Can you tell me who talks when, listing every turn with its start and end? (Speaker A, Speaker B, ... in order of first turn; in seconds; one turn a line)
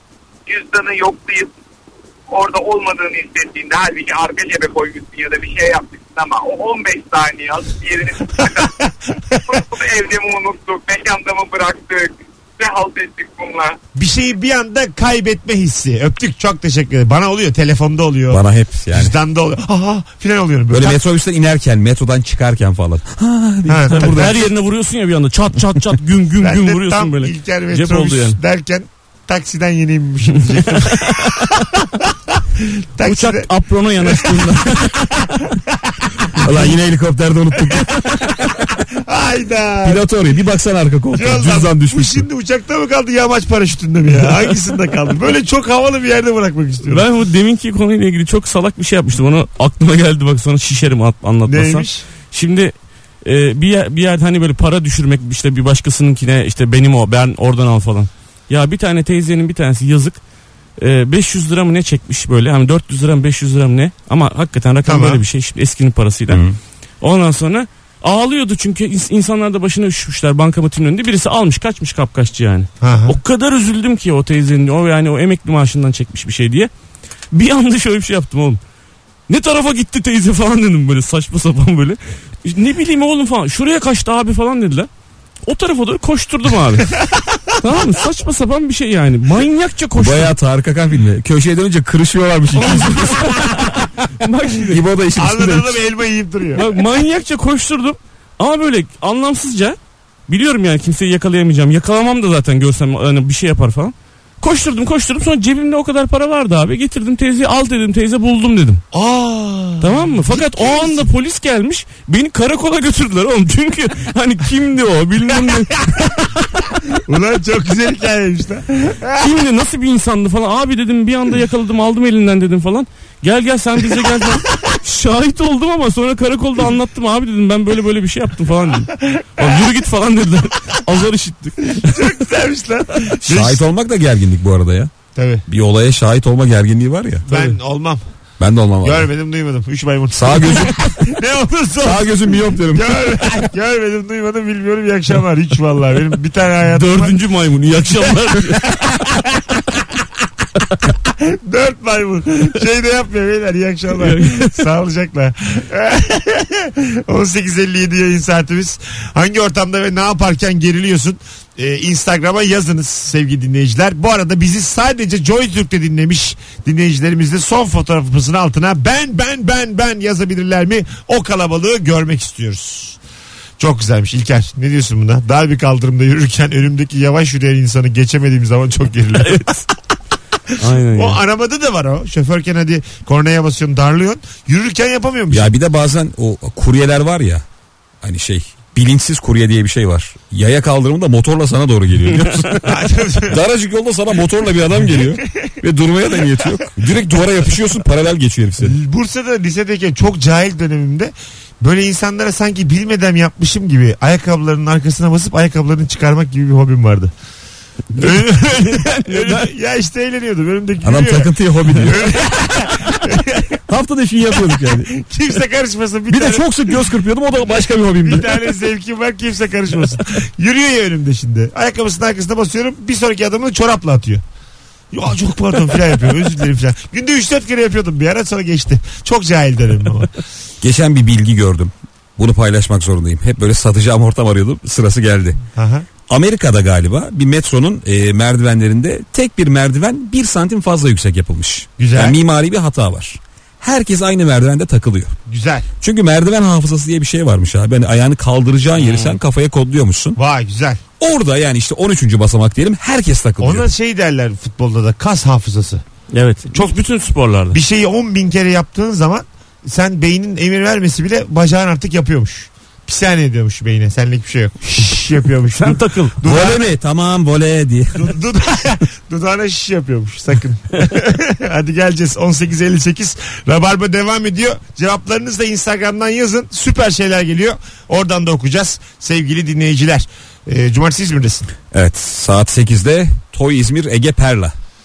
Speaker A: 0.5-1.5
Speaker A: 2.3-8.7
Speaker B: 8.4-9.5
Speaker A: 9.5-13.8
Speaker B: 13.9-21.0
Speaker C: 18.3-19.1
Speaker C: 20.7-24.4
Speaker B: 23.6-24.3
Speaker D: 23.9-28.4
Speaker B: 26.4-33.5
Speaker D: 30.6-31.5
Speaker D: 33.0-35.2
Speaker B: 34.0-36.8
Speaker C: 36.3-38.5
Speaker B: 38.8-40.0
Speaker C: 39.8-42.2
Speaker B: 41.1-47.1
Speaker D: 46.8-60.2
Speaker B: 51.5-52.0
Speaker D: 60.8-66.4
Speaker B: 64.8-65.2
Speaker C: 66.3-66.6
Speaker D: 67.0-76.7
Speaker B: 72.8-73.2
Speaker D: 77.3-78.6
Speaker D: 79.3-84.9
Speaker D: 85.5-86.9
Speaker B: 87.0-87.4
Speaker D: 87.6-90.4
Speaker C: 90.0-93.4
Speaker D: 92.5-94.8
Speaker C: 94.6-95.7
Speaker B: 95.2-96.7
Speaker D: 96.5-99.8
Speaker D: 100.3-108.8
Speaker B: 108.9-111.1
Speaker D: 109.8-116.2
Speaker B: 117.0-119.2
Speaker D: 119.2-132.1
Speaker B: 129.0-129.5
Speaker B: 131.8-133.6
Speaker C: 133.3-134.9
Speaker B: 135.1-135.4
Speaker C: 135.5-137.2
Speaker D: 137.3-137.5
Speaker B: 137.3-138.0
Speaker C: 138.4-139.1
Speaker B: 138.8-147.2
Speaker C: 140.1-141.0
Speaker C: 141.8-142.9
Speaker D: 146.7-149.1
Speaker B: 148.1-149.5
Speaker B: 151.0-173.0
Speaker D: 153.9-154.6
Speaker B: 173.6-179.6
Speaker D: 179.2-179.6
Speaker D: 180.6-181.2
Speaker B: 180.9-185.5
Speaker C: 185.3-187.4
Speaker C: 188.0-192.7
Speaker D: 192.1-192.6
Speaker B: 192.7-193.4
Speaker C: 193.3-198.8
Speaker B: 196.1-196.7
Speaker B: 198.6-207.1
Speaker B: 207.9-213.6
Speaker D: 208.8-209.5
Speaker C: 210.8-212.1
Speaker C: 213.7-214.9
Speaker B: 214.3-216.9
Speaker C: 216.1-218.4
Speaker B: 218.0-224.2
Speaker B: 224.9-230.1
Speaker C: 230.6-235.4
Speaker B: 235.5-235.9
Speaker C: 236.1-245.1
Speaker B: 241.8-242.2
Speaker B: 245.3-245.7
Speaker C: 245.8-250.2
Speaker D: 248.8-249.2
Speaker B: 250.2-250.8
Speaker C: 251.0-253.7
Speaker B: 253.4-255.8
Speaker D: 256.1-257.6
Speaker B: 257.5-266.6
Speaker D: 265.6-266.2
Speaker C: 266.2-268.1
Speaker B: 267.9-281.4
Speaker C: 281.7-284.5